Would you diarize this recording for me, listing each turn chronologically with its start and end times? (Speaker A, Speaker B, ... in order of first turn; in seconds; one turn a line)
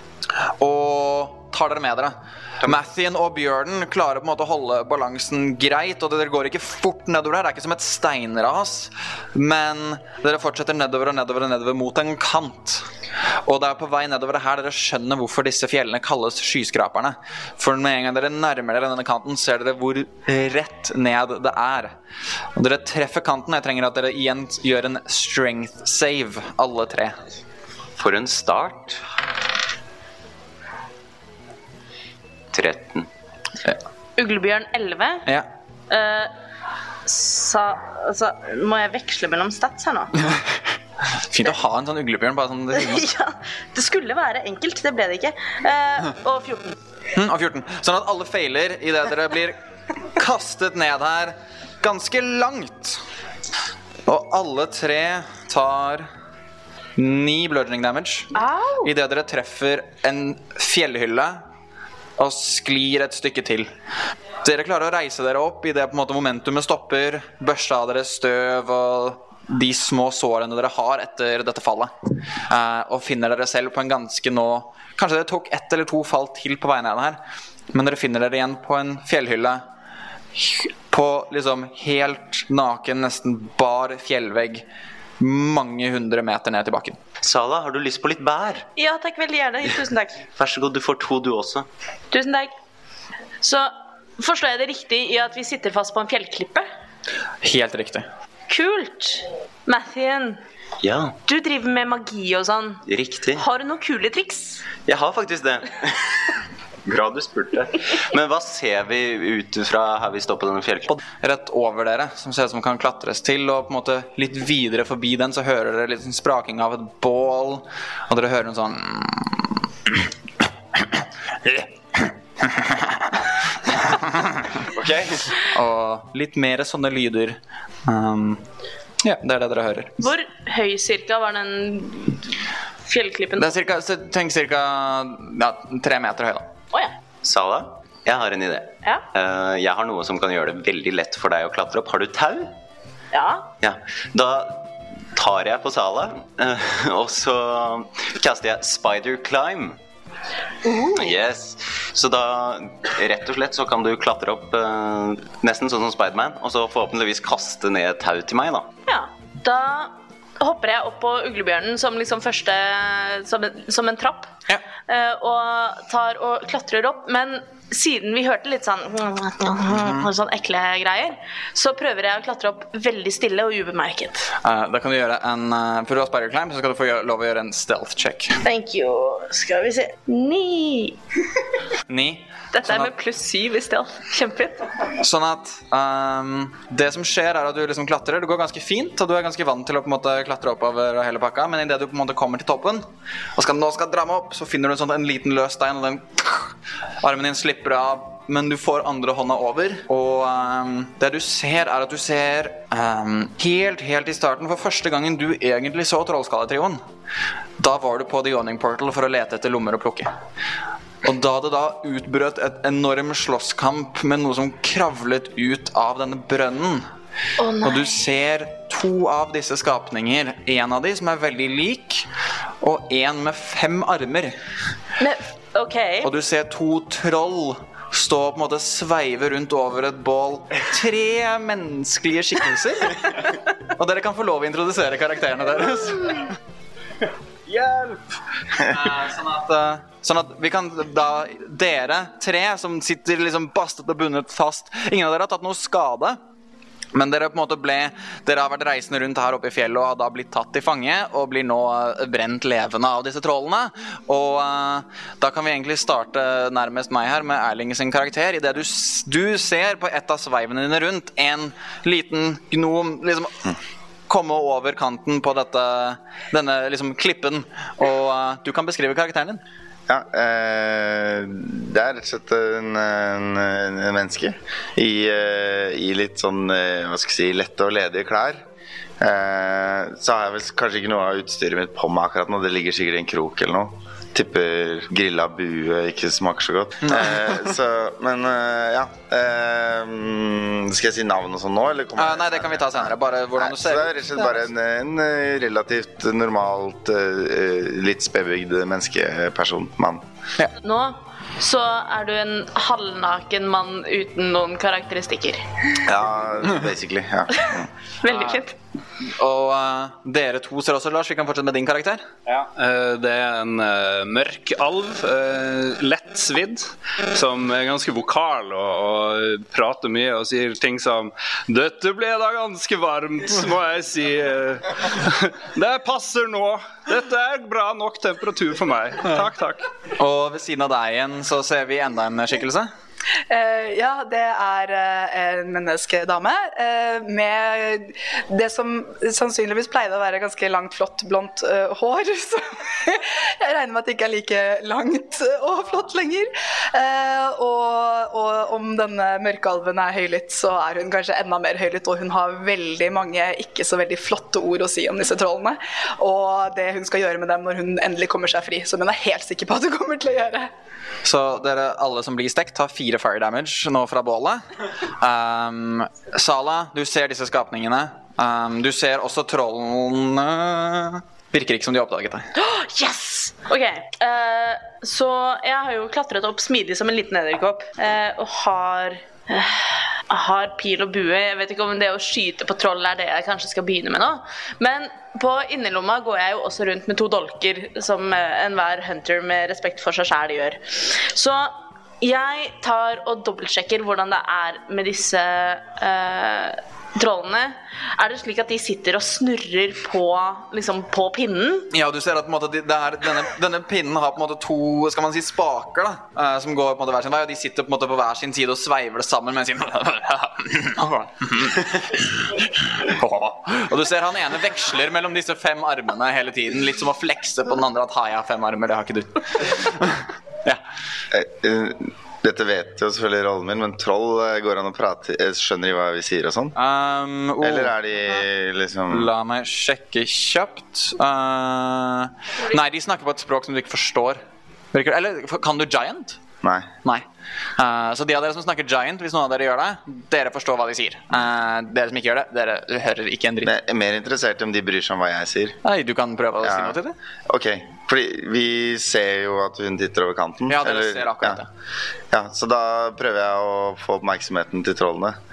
Speaker A: 0.6-12.8
Speaker A: 13.4-21.9
Speaker A: 22.6-27.1
Speaker B: 28.0-29.0
Speaker B: 32.5-33.1
Speaker C: 34.2-35.2
Speaker C: 35.9-36.3
Speaker C: 37.0-40.1
Speaker A: 41.2-43.1
Speaker C: 42.8-46.8
Speaker A: 47.1-49.6
Speaker A: 50.1-53.0
Speaker A: 54.0-56.1
Speaker A: 57.0-61.4
Speaker C: 58.3-58.9
Speaker A: 62.2-63.7
Speaker A: 64.4-71.9
Speaker A: 72.5-77.2
Speaker A: 77.7-79.6
Speaker A: 80.3-84.6
Speaker A: 85.2-87.0
Speaker B: 87.2-88.7
Speaker C: 88.8-90.2
Speaker B: 90.3-91.7
Speaker C: 92.1-92.5
Speaker C: 93.4-96.7
Speaker A: 97.4-98.1
Speaker C: 98.5-100.4
Speaker B: 100.8-101.2
Speaker C: 101.2-102.8
Speaker B: 102.9-103.4
Speaker C: 103.3-104.7
Speaker B: 104.8-111.0
Speaker A: 111.2-119.5
Speaker A: 122.4-123.0
Speaker A: 123.7-124.5
Speaker B: 124.7-125.2
Speaker A: 125.4-128.4
Speaker A: 129.0-130.0
Speaker C: 130.0-133.5
Speaker A: 133.4-136.5
Speaker B: 137.2-142.5
Speaker C: 143.1-143.5
Speaker B: 143.6-149.8
Speaker C: 150.6-151.1
Speaker B: 150.9-158.7
Speaker C: 158.9-164.3
Speaker C: 164.9-174.3
Speaker A: 169.7-170.1
Speaker A: 174.4-178.4
Speaker C: 178.4-181.0
Speaker A: 181.9-182.9
Speaker C: 182.5-184.7
Speaker A: 185.0-192.8
Speaker A: 193.3-206.8
Speaker A: 207.6-210.1
Speaker A: 211.0-216.8
Speaker C: 217.4-217.9
Speaker A: 217.6-222.1
Speaker A: 222.6-224.4
Speaker C: 225.0-226.1
Speaker A: 226.0-236.3
Speaker D: 237.6-237.9
Speaker A: 238.6-246.2
Speaker A: 246.9-263.5
Speaker A: 264.1-269.4
Speaker E: 269.9-278.4
Speaker E: 279.0-300.0
Speaker A: 286.8-287.3
Speaker A: 292.0-294.4
Speaker C: 300.6-305.4
Speaker E: 305.8-307.7
Speaker C: 308.0-308.5
Speaker A: 308.1-308.4
Speaker A: 309.2-312.0
Speaker D: 312.2-329.6
Speaker A: 330.0-332.7
Speaker F: 333.3-360.5
Speaker A: 361.0-364.4
Speaker A: 364.9-372.3
Speaker C: 372.4-401.7
Speaker A: 401.7-420.6
Speaker E: 421.1-426.5
Speaker A: 426.6-427.7
Speaker E: 427.4-429.1
Speaker A: 428.9-434.2
Speaker A: 434.7-436.2
Speaker E: 436.4-436.7
Speaker A: 437.6-443.5
Speaker E: 443.4-445.6
Speaker A: 445.6-446.9
Speaker E: 446.4-446.8
Speaker E: 447.3-451.4
Speaker A: 450.5-451.5
Speaker E: 452.1-455.1